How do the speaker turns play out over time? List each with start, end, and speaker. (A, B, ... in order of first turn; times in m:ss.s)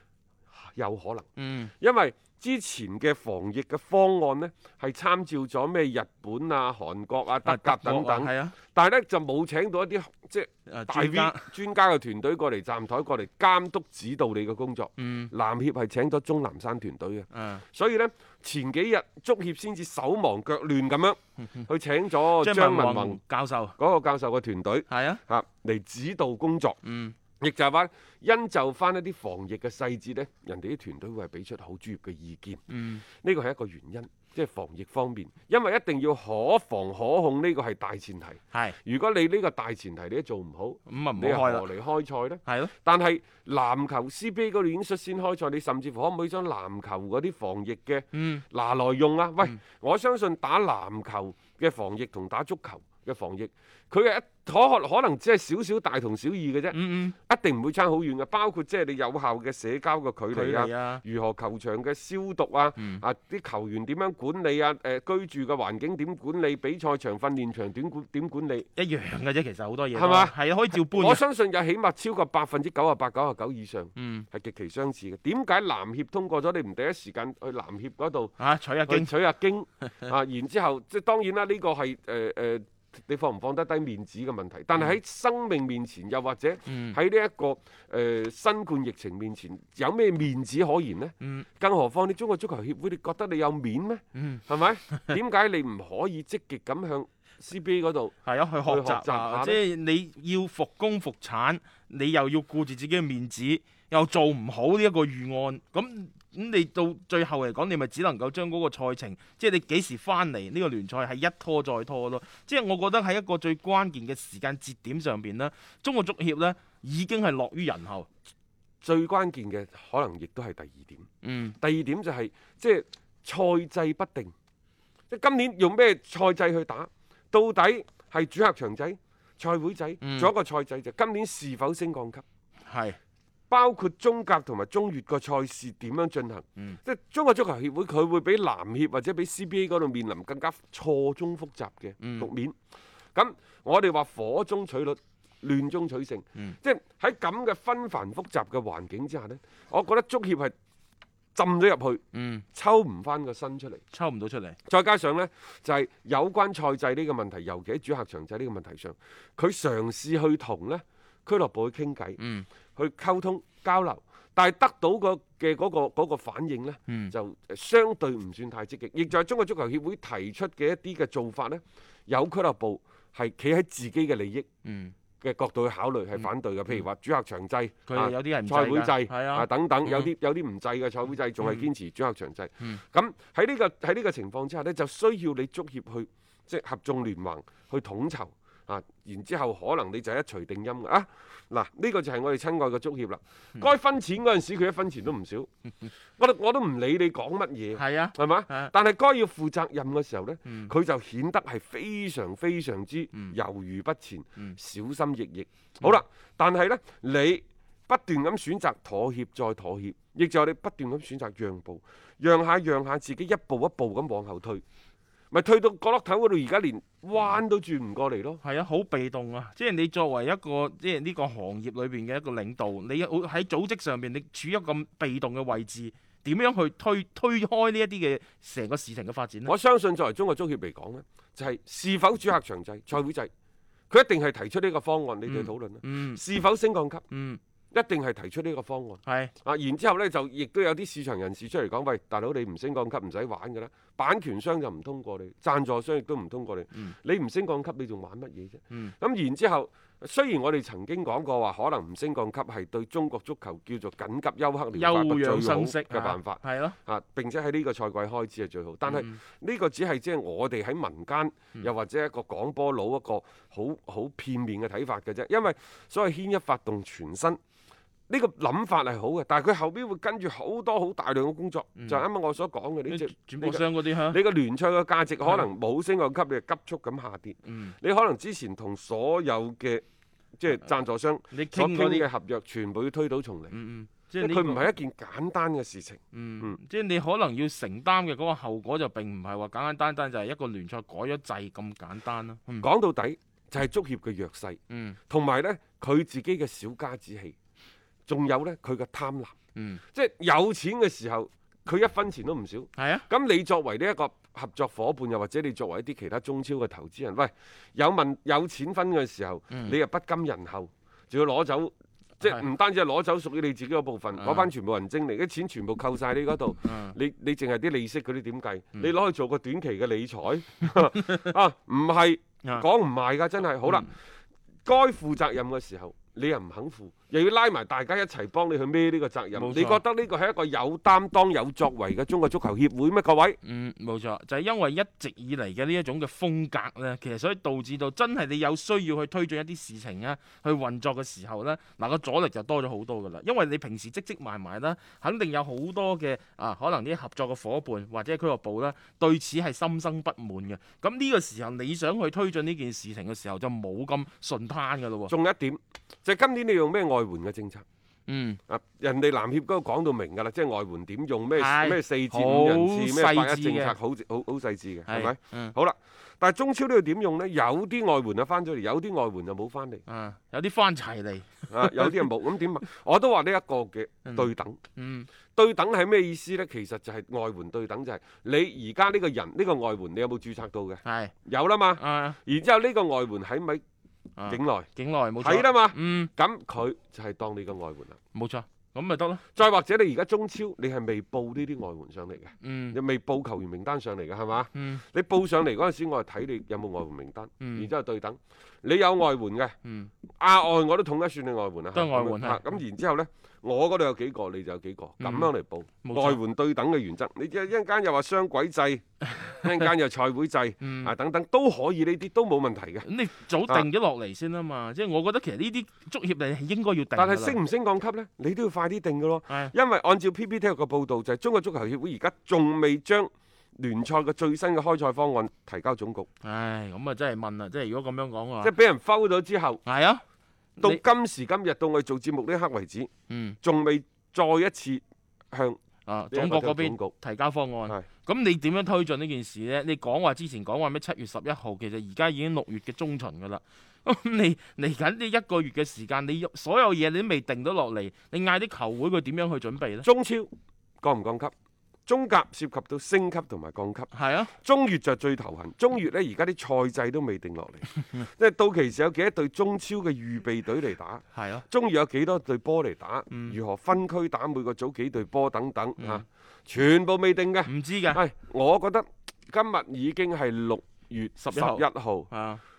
0:00.5-0:01.3 A
0:01.4-0:01.7 B
0:01.8-0:23.2 A
0:07.4-0:08.6 B
0:10.7-0:11.5 B
0:15.0-0:15.3 B
0:17.3-0:17.6 B
0:22.4-0:23.8 B
0:23.8-0:26.8 A
0:24.9-0:25.2 B
0:26.8-0:27.2 B
0:27.4-1:08.7 A
0:32.7-0:33.0 B
0:38.5-0:38.8 B
0:40.9-0:41.7 B
0:42.4-0:42.7 B
0:48.1-0:48.4 B
0:56.7-0:57.2 B
1:00.3-1:01.0 B
1:02.8-1:03.0 B
1:08.8-1:11.2 B
1:09.9-1:39.6 A
1:14.0-1:14.3 B
1:18.4-1:19.1 B
1:26.7-1:27.0 B
1:31.2-1:31.5 B
1:34.2-1:35.1 B
1:38.2-1:58.1 B
1:58.8-2:01.1 A
2:01.2-2:01.6 B
2:01.6-2:04.3 A
2:05.1-2:12.2 A
2:10.0-2:10.3 B
2:12.7-2:13.0 B
2:13.5-2:22.6 A
2:22.0-2:22.3 B
2:23.2-2:30.6 A
2:31.4-2:32.0 A
2:32.1-2:32.4 B
2:32.5-2:33.8 A
2:33.9-2:34.6 B
2:34.7-2:42.2 A
2:42.2-2:42.5 B
2:42.8-2:54.5 A
2:46.9-2:47.2 B
2:54.6-2:55.0 B
2:55.2-3:15.5 A
2:57.9-3:00.1 B
3:16.2-3:34.6 A
3:17.8-3:18.7 B
3:20.4-3:20.7 B
3:35.3-3:38.4 A
3:38.4-3:49.5 B
3:49.5-3:53.3 A
3:53.9-3:57.0 A
3:55.3-3:56.2 B
3:57.1-3:57.4 B
3:57.7-4:27.4 A
3:59.0-3:59.3 B
4:14.7-4:16.8 B
4:18.9-4:19.2 B
4:28.1-4:39.8 A
4:31.8-4:32.0 B
4:32.9-4:34.2 B
4:37.4-4:37.8 B
4:40.4-4:43.6 A
4:41.3-4:42.1 B
4:43.5-4:44.7 B
4:44.2-4:46.6 A
4:46.1-4:52.7 B
4:52.6-4:54.6 A
4:54.7-4:55.0 B
4:55.1-4:57.4 A
4:58.1-4:59.3 A
4:59.6-4:59.8 B
4:59.9-5:23.9 A
5:02.8-5:03.1 B
5:09.5-5:09.8 B
5:14.2-5:14.5 B
5:16.6-5:17.0 B
5:24.6-5:33.4 A
5:29.3-5:29.8 B
5:33.4-5:55.1 B
5:55.1-5:57.6 A
5:58.1-5:58.4 B
5:58.5-6:09.8 A
6:01.4-6:03.8 B
6:04.9-6:05.6 B
6:09.9-6:12.0 B
6:11.5-6:14.6 A
6:14.0-6:15.1 B
6:15.4-6:23.6 A
6:20.8-6:21.1 B
6:21.8-6:22.2 B
6:24.2-6:26.1 B
6:24.2-6:28.0 A
6:28.1-6:29.2 B
6:29.4-6:39.6 A
6:32.4-6:32.8 B
6:34.5-6:34.8 B
6:37.4-6:37.7 B
6:39.6-6:39.9 B
6:40.2-6:52.9 A
6:41.7-6:42.5 B
6:45.0-6:45.3 B
6:45.8-6:46.2 B
6:50.6-6:50.9 B
6:52.8-6:57.4 B
6:57.0-7:06.1 A
7:06.2-7:08.5 B
7:08.4-7:09.6 A
7:09.6-7:10.0 B
7:10.6-7:10.8 B
7:10.6-7:12.9 A
7:13.1-7:13.4 B
7:13.4-7:15.6 A
7:15.9-7:29.9 B
7:16.1-7:16.9 A
7:29.8-7:30.3 A
7:30.8-7:31.3 A
7:31.9-7:52.1 A
7:33.9-7:34.3 B
7:41.1-7:41.4 B
7:43.1-7:43.4 B
7:45.8-7:46.0 B
7:47.4-7:48.0 B
7:51.2-7:52.4 B